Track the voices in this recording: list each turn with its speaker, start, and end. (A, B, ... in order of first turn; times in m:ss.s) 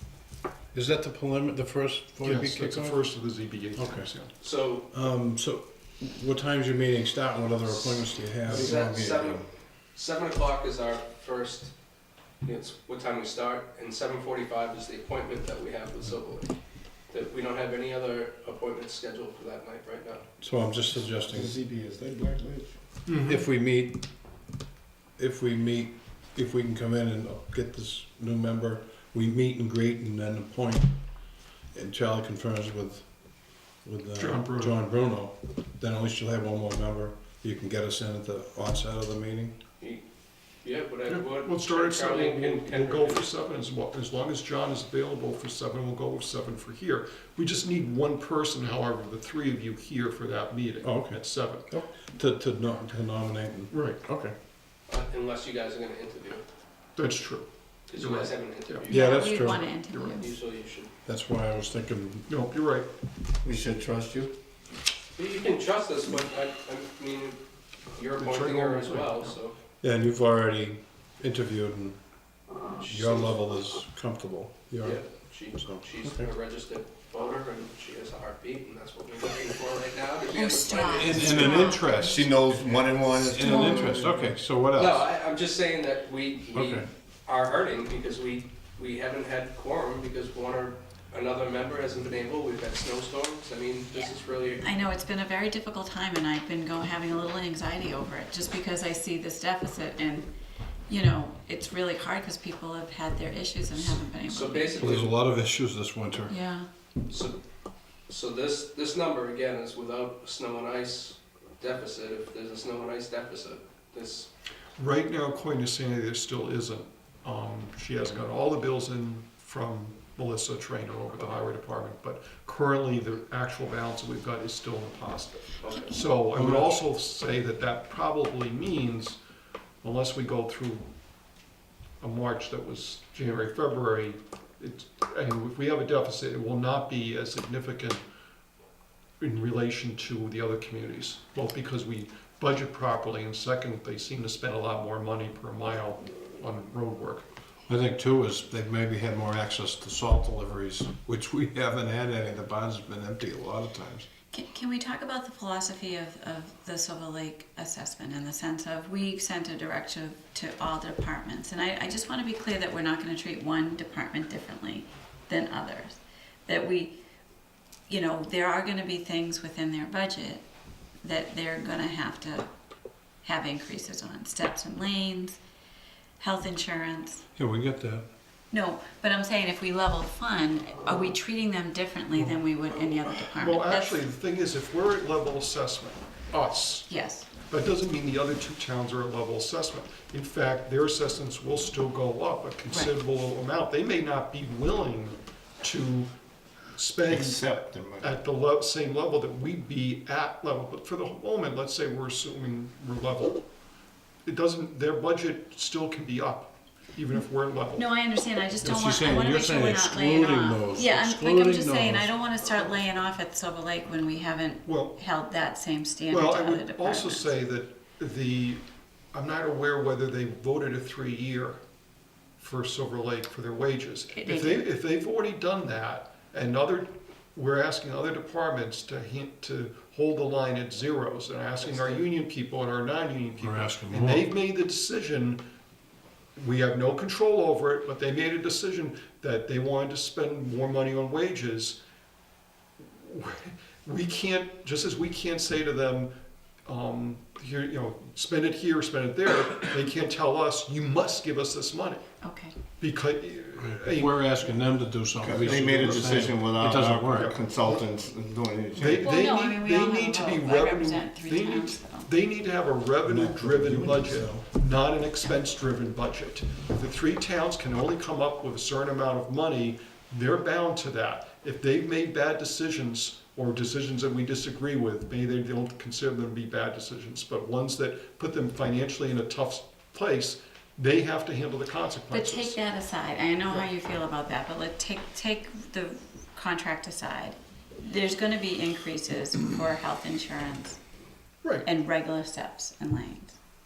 0:00.7-0:03.0 A
0:02.2-0:04.3 B
0:03.7-0:04.1 A
0:04.4-0:04.9 C
0:04.9-0:09.5 A
0:07.7-0:11.7 C
0:12.4-0:16.5 C
0:17.1-0:20.2 C
0:20.4-0:21.5 A
0:21.3-0:22.7 D
0:23.0-0:23.4 B
0:23.2-0:24.1 A
0:25.2-0:31.2 A
0:31.7-0:39.6 A
0:34.2-0:34.8 B
0:40.6-0:43.2 C
0:41.1-0:51.7 B
0:50.8-0:54.3 A
0:53.7-0:54.0 B
0:54.9-0:56.4 C
0:57.0-0:58.9 B
0:57.9-0:59.1 C
0:58.9-0:59.7 A
0:58.9-1:00.3 E
0:59.9-1:00.3 B
1:00.2-1:00.9 C
1:01.0-1:02.3 A
1:02.3-1:02.9 B
1:03.4-1:04.3 D
1:05.1-1:07.4 C
1:07.9-1:09.5 C
1:08.2-1:09.4 B
1:09.8-1:12.2 A
1:12.8-1:13.4 C
1:12.8-1:15.0 A
1:14.8-1:21.8 C
1:15.6-1:16.3 A
1:20.3-1:21.9 E
1:20.9-1:22.4 A
1:21.3-1:24.2 D
1:23.1-1:25.1 A
1:23.4-1:34.6 C
1:23.4-1:23.8 E
1:26.5-1:26.9 A
1:33.9-1:40.3 E
1:40.9-1:45.0 E
1:43.8-1:45.1 C
1:44.8-1:46.3 A
1:46.3-1:46.7 E
1:47.1-1:47.4 C
1:48.1-1:54.3 C
1:54.8-2:09.2 B
2:05.6-2:06.0 C
2:06.4-2:06.7 A
2:09.8-2:10.9 B
2:12.0-2:18.0 B
2:19.2-2:27.2 B
2:27.7-2:34.1 A
2:34.3-2:47.0 E
2:47.9-2:50.4 E
2:51.0-2:52.5 E
2:53.2-2:55.4 E
2:56.2-2:57.2 E
2:57.4-2:58.0 A
2:58.5-3:04.0 E
3:03.4-3:06.9 B
3:06.9-3:07.3 E
3:07.5-3:16.1 B
3:12.7-3:12.9 E
3:16.8-3:17.4 B
3:17.0-3:18.2 D
3:18.0-3:23.4 B
3:24.2-3:27.9 B
3:27.7-3:37.3 E
3:28.6-3:32.1 A
3:34.6-3:35.0 B
3:36.1-3:41.6 B
3:42.4-3:55.4 B
3:44.1-3:44.7 E
3:51.6-3:52.0 C
3:53.4-3:54.3 A
3:56.4-4:01.8 B
4:02.8-4:06.1 B
4:06.6-4:12.0 B
4:12.2-4:12.5 E
4:12.8-4:14.6 B
4:13.6-4:17.3 A
4:15.2-4:19.1 D
4:17.1-4:17.4 B
4:18.8-4:42.6 B
4:19.0-4:22.1 E
4:23.0-4:24.4 A
4:42.1-4:50.8 E
4:51.6-4:53.4 E